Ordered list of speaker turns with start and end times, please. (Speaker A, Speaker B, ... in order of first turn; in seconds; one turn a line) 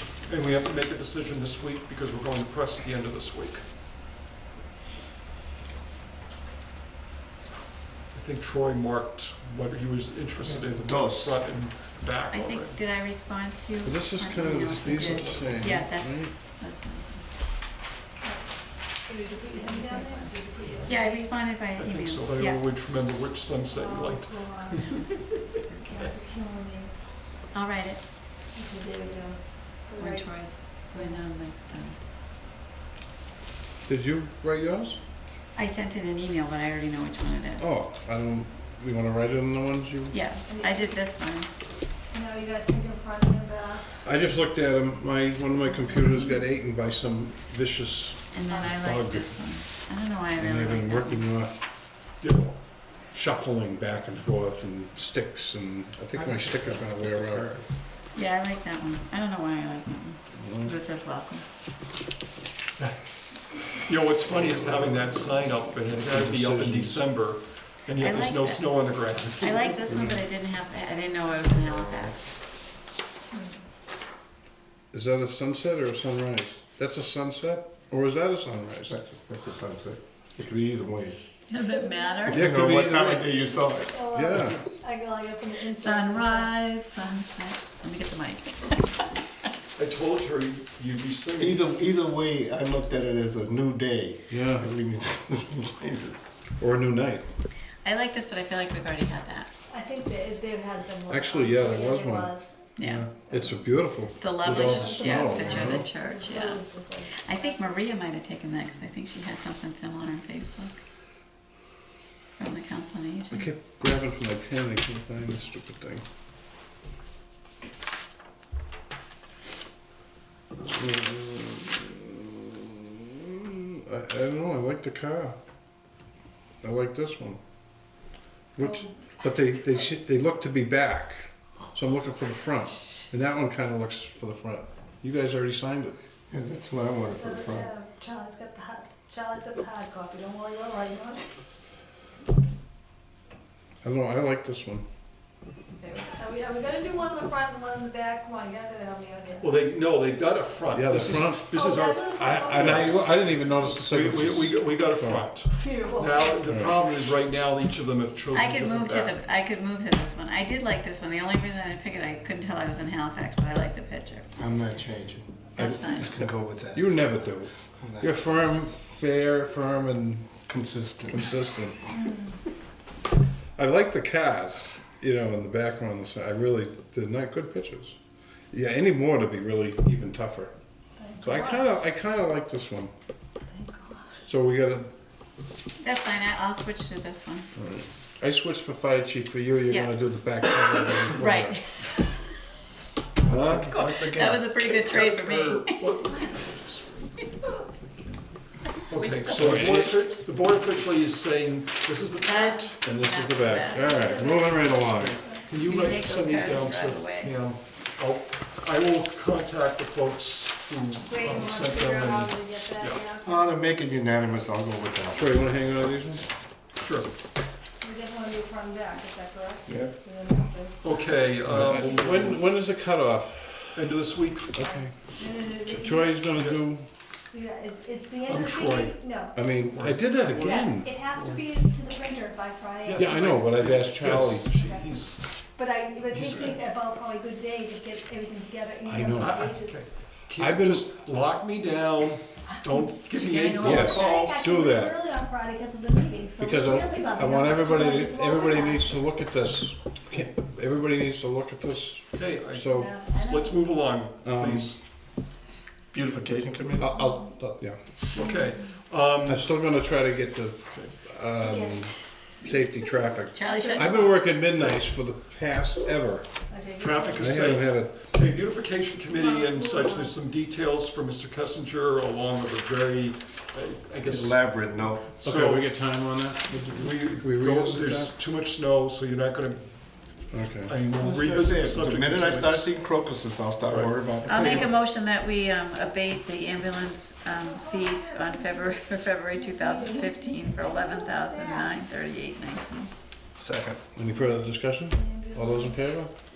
Speaker A: 0.3-3.6
Speaker A: 8.1-12.8
Speaker B: 10.5-11.4
Speaker C: 12.3-17.2
Speaker D: 13.8-16.3
Speaker A: 14.8-15.4
Speaker E: 18.2-21.3
Speaker C: 19.5-22.6
Speaker A: 21.8-25.0
Speaker E: 23.7-25.3
Speaker E: 25.8-26.9
Speaker C: 27.5-28.1
Speaker E: 28.5-31.2
Speaker C: 30.0-32.0
Speaker D: 33.9-35.0
Speaker C: 35.5-37.7
Speaker D: 37.6-40.2
Speaker C: 40.1-41.5
Speaker E: 40.3-41.0
Speaker E: 42.1-43.9
Speaker D: 44.0-49.3
Speaker C: 48.3-51.2
Speaker D: 50.4-51.6
Speaker A: 52.2-52.6
Speaker D: 53.1-57.6
Speaker B: 56.2-57.6
Speaker C: 58.1-61.4
Speaker D: 60.3-60.8
Speaker A: 63.8-69.8
Speaker D: 66.0-67.0
Speaker C: 68.0-72.3
Speaker D: 69.9-70.2
Speaker E: 73.3-73.6
Speaker D: 74.9-79.0
Speaker B: 78.9-81.2
Speaker C: 81.5-82.5
Speaker E: 81.7-82.3
Speaker D: 82.3-83.3
Speaker B: 82.3-84.0
Speaker E: 83.9-86.5
Speaker D: 84.1-84.6
Speaker C: 85.7-89.1
Speaker A: 89.8-91.6
Speaker B: 91.4-96.3
Speaker D: 94.3-94.7
Speaker D: 96.6-97.3
Speaker C: 97.8-99.5
Speaker E: 99.7-102.7
Speaker D: 101.1-105.9
Speaker C: 102.8-103.1
Speaker E: 103.3-103.6
Speaker C: 104.1-110.8
Speaker E: 104.4-107.8
Speaker C: 112.4-113.5
Speaker D: 113.3-116.0
Speaker D: 120.7-125.3
Speaker D: 126.6-127.4
Speaker D: 128.6-131.2
Speaker E: 128.6-129.1
Speaker D: 131.7-136.0
Speaker B: 136.3-137.7
Speaker E: 137.1-141.3
Speaker D: 143.8-144.8
Speaker E: 145.8-149.5
Speaker A: 149.4-159.2
Speaker D: 150.7-151.5
Speaker E: 151.5-152.8
Speaker D: 152.1-155.3
Speaker E: 155.4-156.4
Speaker D: 156.5-156.8
Speaker C: 158.3-164.3
Speaker B: 164.3-167.1
Speaker C: 165.6-166.1
Speaker D: 166.7-170.4
Speaker B: 167.8-168.6
Speaker B: 170.4-171.3
Speaker D: 171.1-171.8
Speaker D: 173.6-177.9
Speaker D: 178.5-180.5
Speaker E: 181.0-181.7
Speaker D: 181.2-182.9
Speaker E: 183.5-184.2
Speaker D: 184.2-184.9
Speaker C: 185.8-187.5
Speaker D: 187.6-191.8
Speaker C: 189.7-192.1
Speaker B: 193.2-194.7
Speaker D: 193.2-193.8
Speaker C: 193.4-195.8
Speaker A: 194.7-198.1
Speaker A: 198.8-202.8
Speaker C: 198.8-199.5
Speaker D: 199.3-200.1
Speaker C: 202.2-204.1
Speaker D: 202.8-205.2
Speaker E: 203.5-205.4
Speaker A: 205.3-213.0
Speaker C: 205.5-207.3
Speaker E: 211.0-213.5
Speaker B: 213.2-215.4
Speaker D: 215.1-216.3
Speaker A: 216.8-217.1
Speaker E: 217.8-220.9
Speaker B: 219.7-220.0
Speaker A: 220.8-222.4
Speaker D: 221.4-223.9
Speaker A: 223.7-224.8
Speaker D: 224.5-226.9
Speaker E: 225.1-226.3
Speaker A: 226.3-226.6
Speaker E: 227.3-229.4
Speaker A: 228.2-230.5
Speaker D: 229.3-231.3
Speaker E: 230.2-233.1
Speaker A: 232.8-235.5
Speaker D: 233.0-234.6
Speaker E: 234.6-235.0
Speaker E: 235.5-239.8
Speaker A: 236.1-236.6
Speaker D: 238.8-239.5
Speaker A: 239.1-244.3
Speaker D: 240.3-240.9
Speaker C: 243.1-244.1
Speaker E: 243.6-249.0
Speaker D: 243.6-244.9
Speaker D: 246.4-252.9
Speaker A: 252.1-254.8
Speaker E: 252.7-253.8
Speaker D: 254.2-254.7
Speaker B: 255.9-257.0
Speaker D: 256.8-257.8
Speaker A: 258.1-259.4
Speaker E: 258.2-258.5
Speaker D: 259.2-266.3
Speaker E: 261.4-261.9
Speaker E: 262.5-264.0
Speaker C: 263.3-264.2
Speaker E: 266.5-267.4
Speaker A: 266.8-275.7
Speaker D: 267.1-268.0
Speaker E: 269.1-270.1
Speaker B: 274.0-275.1
Speaker D: 275.2-278.1
Speaker A: 276.6-282.7
Speaker D: 280.3-280.7
Speaker B: 280.9-284.7
Speaker A: 283.6-284.7
Speaker C: 284.2-292.9
Speaker E: 287.3-291.8
Speaker B: 293.4-293.8
Speaker D: 293.9-296.1
Speaker E: 294.1-295.8